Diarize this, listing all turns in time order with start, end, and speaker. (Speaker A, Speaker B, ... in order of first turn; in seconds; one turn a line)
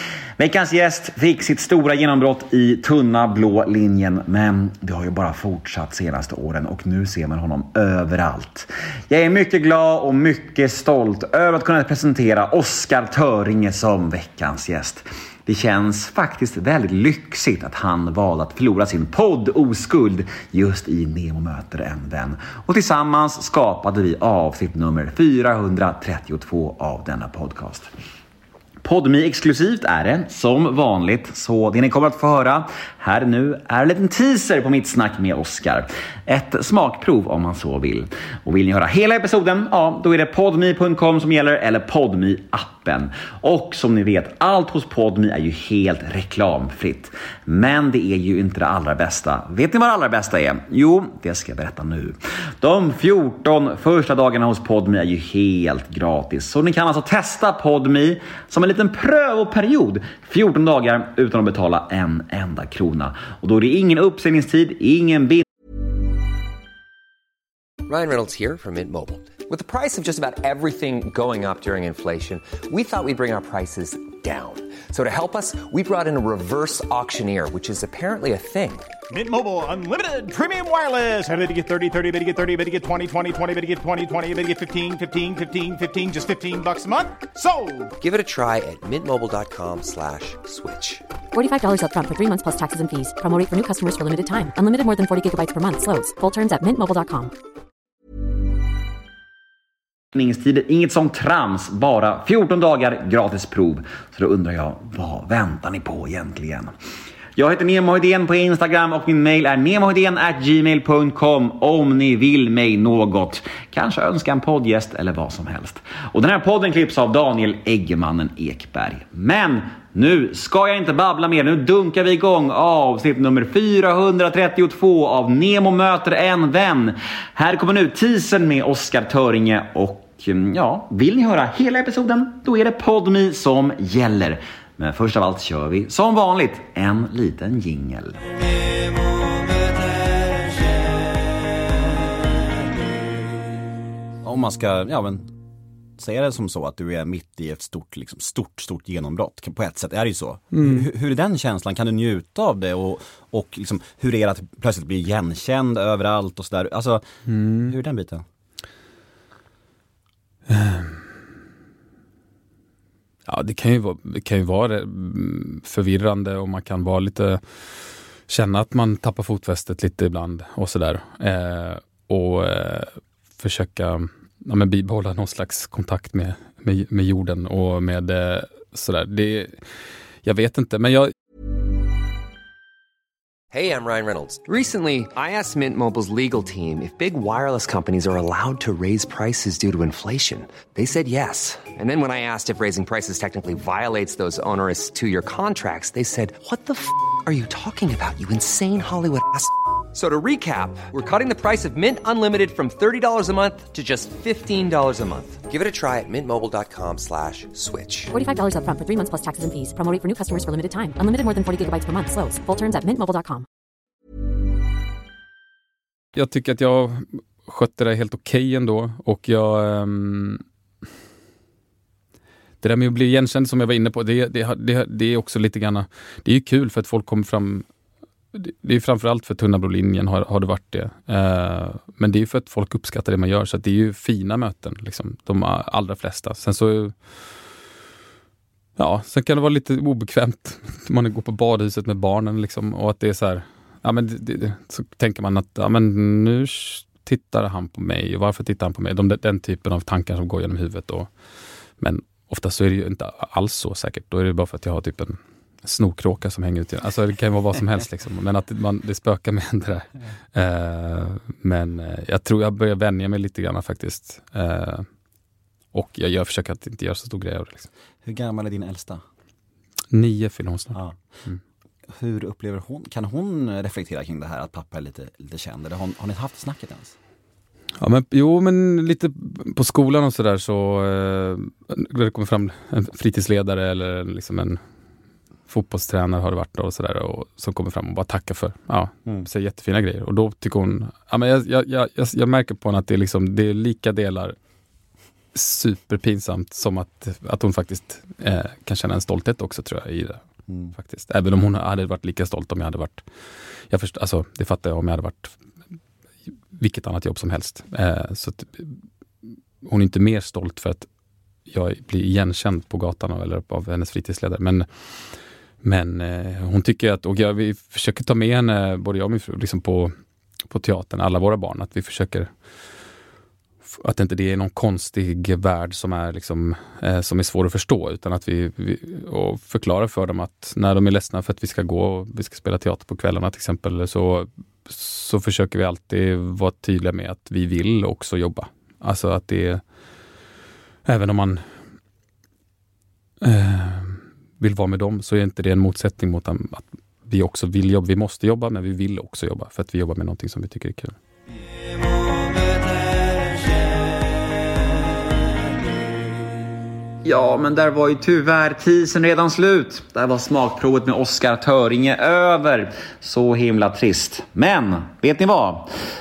Speaker A: 0.4-27.9
Speaker A: 28.8-65.4
Speaker B: 67.9-78.9
Speaker C: 79.1-87.8
Speaker B: 88.0-91.0
Speaker D: 91.3-97.3
Speaker A: 100.2-106.7
Speaker A: 107.4-138.2
Speaker E: 144.2-145.3
Speaker E: 146.0-157.0
Speaker F: 150.5-150.9
Speaker F: 157.3-157.8
Speaker E: 157.6-158.2
Speaker F: 160.5-161.0
Speaker F: 163.3-167.4
Speaker F: 168.3-179.6
Speaker F: 180.2-181.1
Speaker B: 183.5-208.1
Speaker D: 208.1-213.4
Speaker F: 216.2-220.4
Speaker F: 222.6-227.7
Speaker F: 228.3-237.0
Speaker F: 238.8-251.1
Speaker F: 251.8-264.9
Speaker F: 265.7-267.7
Speaker E: 268.0-269.0
Speaker F: 269.9-271.4
Speaker E: 272.0-276.9
Speaker F: 277.8-284.6
Speaker F: 285.5-294.4
Speaker F: 295.3-303.0
Speaker F: 303.7-305.4
Speaker F: 306.5-308.8
Speaker F: 309.6-310.9
Speaker F: 311.5-314.7
Speaker F: 315.6-319.9
Speaker F: 320.5-322.3
Speaker F: 323.6-339.6
Speaker F: 340.9-341.4
Speaker F: 343.2-351.0
Speaker A: 357.0-365.7